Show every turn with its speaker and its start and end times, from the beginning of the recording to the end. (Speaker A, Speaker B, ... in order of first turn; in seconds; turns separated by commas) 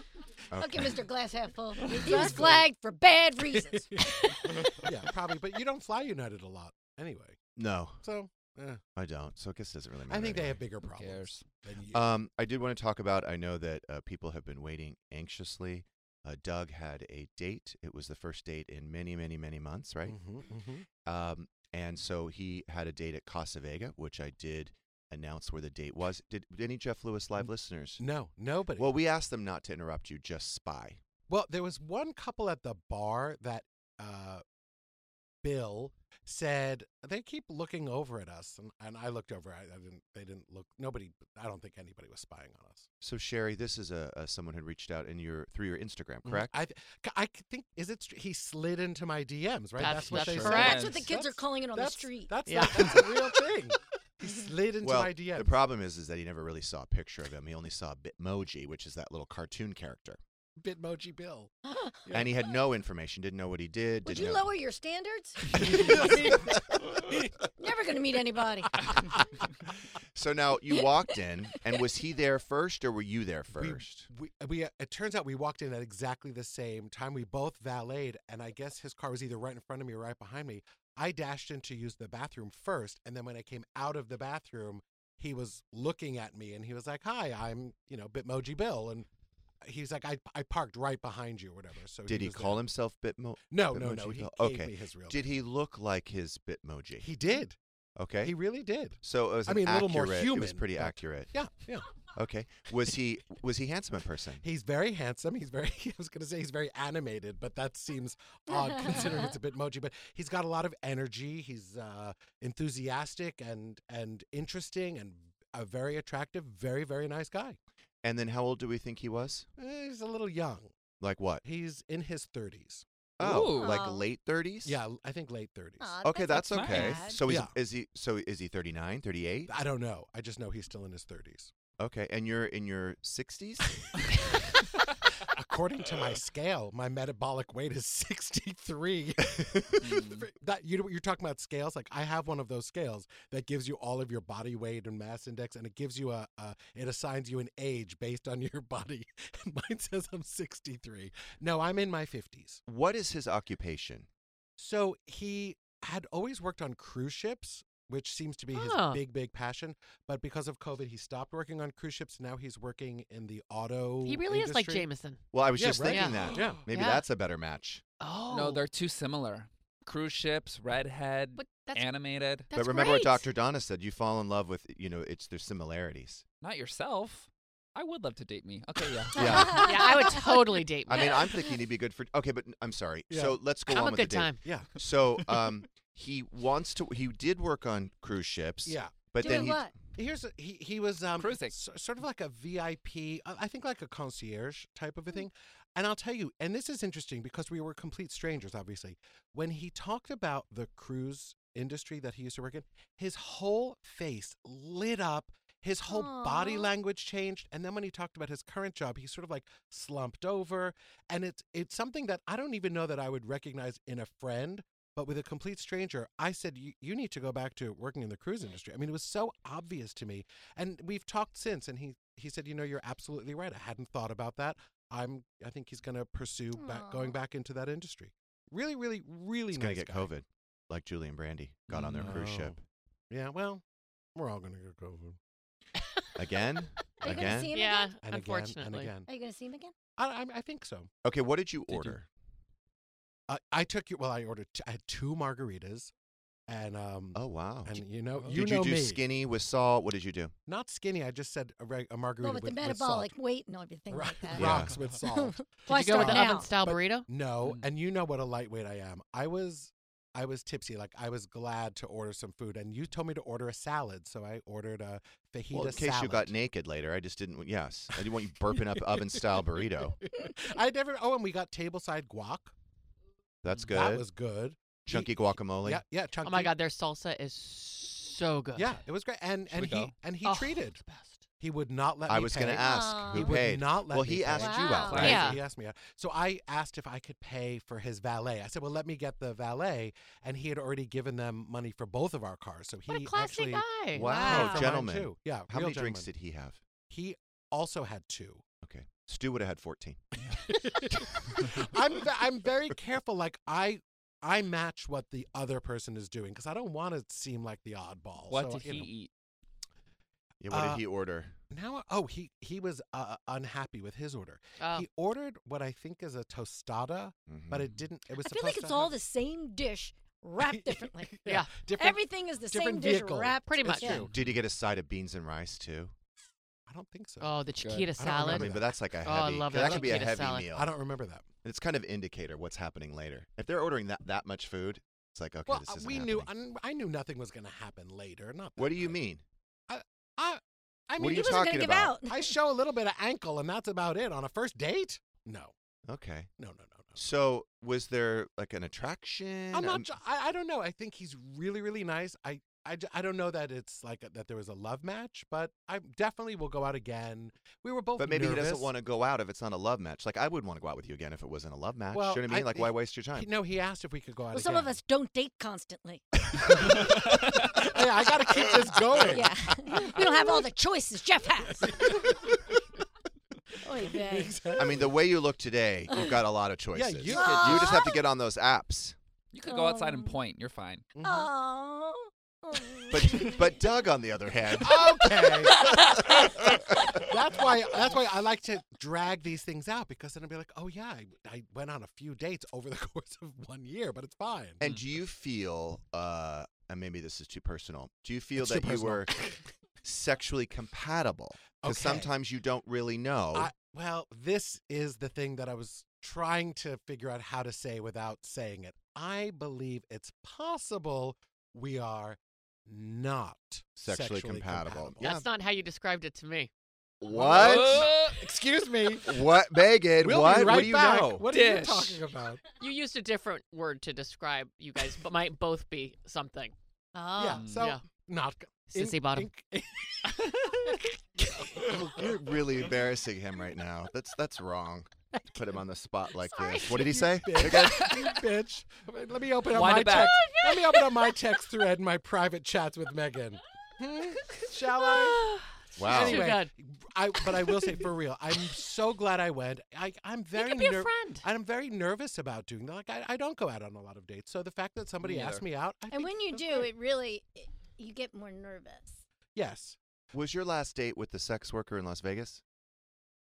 Speaker A: 0.5-0.9, Speaker B: 0.6-4.9, Speaker C: 1.8-2.7, Speaker C: 3.4-7.4, Speaker A: 7.5-8.0, Speaker C: 8.0-8.8, Speaker A: 8.9-10.6, Speaker C: 10.1-12.1, Speaker D: 10.8-11.4, Speaker A: 11.9-20.2, Speaker C: 20.1-20.9, Speaker A: 21.0-28.0, Speaker C: 28.0-28.9, Speaker A: 28.8-31.0, Speaker C: 31.3-34.4, Speaker C: 35.4-42.9, Speaker A: 43.0-46.5, Speaker C: 46.2-55.5, Speaker E: 49.8-51.0, Speaker D: 50.0-51.0, Speaker B: 50.5-52.4, Speaker E: 52.5-53.2, Speaker A: 54.8-60.2, Speaker C: 60.6-61.5, Speaker B: 61.6-62.0, Speaker A: 62.1-64.5, Speaker B: 64.0-66.2, Speaker C: 65.5-67.3, Speaker B: 67.6-69.1, Speaker A: 70.1-74.1, Speaker C: 73.5-89.1, Speaker C: 89.6-92.6, Speaker A: 92.1-97.1, Speaker C: 93.5-95.3, Speaker C: 97.0-97.6, Speaker A: 98.0-98.4, Speaker C: 98.2-101.9, Speaker A: 99.0-101.3, Speaker A: 102.1-104.4, Speaker C: 104.4-117.6, Speaker B: 108.5-109.1, Speaker A: 118.0-119.5, Speaker C: 119.6-120.7, Speaker A: 121.0-121.4, Speaker C: 121.4-122.8, Speaker A: 123.2-124.8, Speaker D: 123.2-123.8, Speaker B: 123.4-124.0, Speaker C: 124.6-125.9, Speaker B: 125.8-127.2, Speaker A: 126.0-129.5, Speaker D: 126.5-127.1, Speaker C: 127.2-127.5, Speaker C: 129.5-131.5, Speaker A: 131.8-133.8, Speaker C: 135.2-152.6, Speaker D: 139.8-140.3, Speaker A: 152.7-154.1, Speaker C: 154.6-164.9, Speaker E: 158.5-159.0, Speaker E: 164.0-165.2, Speaker A: 165.3-167.8, Speaker C: 165.6-166.7, Speaker E: 165.8-167.0, Speaker E: 168.0-168.6, Speaker D: 168.3-172.5, Speaker E: 171.3-171.9, Speaker E: 172.5-173.2, Speaker A: 172.5-176.2, Speaker D: 176.4-179.7, Speaker A: 179.1-179.7, Speaker B: 179.2-180.3, Speaker E: 179.5-181.2, Speaker A: 180.9-189.7, Speaker C: 183.1-183.4, Speaker E: 183.7-184.4, Speaker C: 184.4-184.7, Speaker C: 188.7-230.1, Speaker B: 189.2-189.8, Speaker D: 191.2-191.6, Speaker B: 205.9-206.7, Speaker B: 226.6-227.1, Speaker A: 229.5-232.6, Speaker D: 231.7-232.1, Speaker C: 231.7-232.6, Speaker C: 233.1-233.6, Speaker C: 234.1-235.2, Speaker A: 236.2-237.5, Speaker B: 237.0-238.0, Speaker E: 237.5-238.9, Speaker C: 238.0-239.1, Speaker B: 239.1-239.7, Speaker C: 240.0-240.9, Speaker A: 241.0-242.1, Speaker D: 241.7-241.9, Speaker C: 243.3-245.9, Speaker C: 246.5-249.0, Speaker A: 247.1-250.3, Speaker C: 250.5-253.1, Speaker B: 252.2-256.5, Speaker C: 253.9-266.3, Speaker A: 254.3-254.7, Speaker E: 255.7-257.1, Speaker D: 257.4-257.7, Speaker A: 265.5-270.0, Speaker C: 268.8-269.2, Speaker C: 270.1-272.5, Speaker A: 273.4-274.1, Speaker C: 273.7-276.5, Speaker A: 274.9-275.8, Speaker E: 276.2-278.8, Speaker C: 278.5-280.8, Speaker D: 279.5-279.9, Speaker E: 280.2-281.2, Speaker C: 281.4-296.1, Speaker A: 282.1-285.3, Speaker B: 282.6-283.4, Speaker B: 284.3-285.0, Speaker D: 284.9-285.4, Speaker E: 284.9-285.4, Speaker E: 292.9-294.7, Speaker A: 293.9-296.6, Speaker C: 296.9-298.4, Speaker A: 298.6-300.0, Speaker C: 300.4-308.9, Speaker D: 308.3-309.1, Speaker A: 310.4-311.4, Speaker C: 310.5-310.8, Speaker C: 311.5-318.9, Speaker E: 314.6-314.9, Speaker A: 317.3-317.7, Speaker B: 318.2-321.2, Speaker C: 320.4-324.1, Speaker E: 321.2-321.5, Speaker B: 321.8-324.0, Speaker E: 323.4-324.1, Speaker A: 324.1-325.9, Speaker C: 326.7-327.3, Speaker E: 327.2-328.5, Speaker D: 327.6-327.9, Speaker C: 327.9-328.7, Speaker A: 328.3-330.7, Speaker E: 329.0-330.5, Speaker C: 329.5-331.3, Speaker A: 331.4-336.3, Speaker C: 335.5-339.0, Speaker A: 338.6-339.2, Speaker C: 339.7-345.5, Speaker A: 341.0-341.9, Speaker B: 341.0-342.3, Speaker A: 345.9-346.3, Speaker C: 346.4-347.0, Speaker A: 346.9-349.9, Speaker C: 349.5-358.7, Speaker A: 358.0-363.3, Speaker C: 361.9-364.8, Speaker B: 364.3-366.0, Speaker C: 366.3-370.4, Speaker B: 369.0-372.1, Speaker C: 371.6-372.5, Speaker B: 373.6-374.4, Speaker C: 373.7-375.0, Speaker A: 374.6-378.9, Speaker C: 376.7-377.7, Speaker B: 377.1-378.0, Speaker D: 377.1-377.7, Speaker D: 379.3-380.9, Speaker B: 379.4-380.2, Speaker C: 381.0-381.3, Speaker B: 381.0-383.5, Speaker A: 382.9-386.7, Speaker C: 384.6-394.6, Speaker A: 394.6-399.1, Speaker C: 398.4-399.4, Speaker A: 399.8-403.5, Speaker C: 401.6-402.1, Speaker C: 403.3-415.1, Speaker A: 413.8-415.2, Speaker E: 415.0-416.5, Speaker A: 417.0-417.9, Speaker C: 417.1-419.2, Speaker D: 417.1-418.2, Speaker A: 419.0-421.3, Speaker C: 419.9-422.4, Speaker D: 421.3-422.0, Speaker E: 422.6-427.8, Speaker C: 427.2-432.1, Speaker D: 427.4-427.7, Speaker E: 428.7-429.3, Speaker A: 431.6-437.9, Speaker C: 436.5-456.7, Speaker D: 437.6-438.1, Speaker D: 439.5-440.3, Speaker E: 444.9-446.5, Speaker A: 445.8-446.3, Speaker E: 450.3-451.2, Speaker D: 455.0-455.4, Speaker B: 455.9-459.0, Speaker C: 459.3-459.8, Speaker A: 460.1-462.4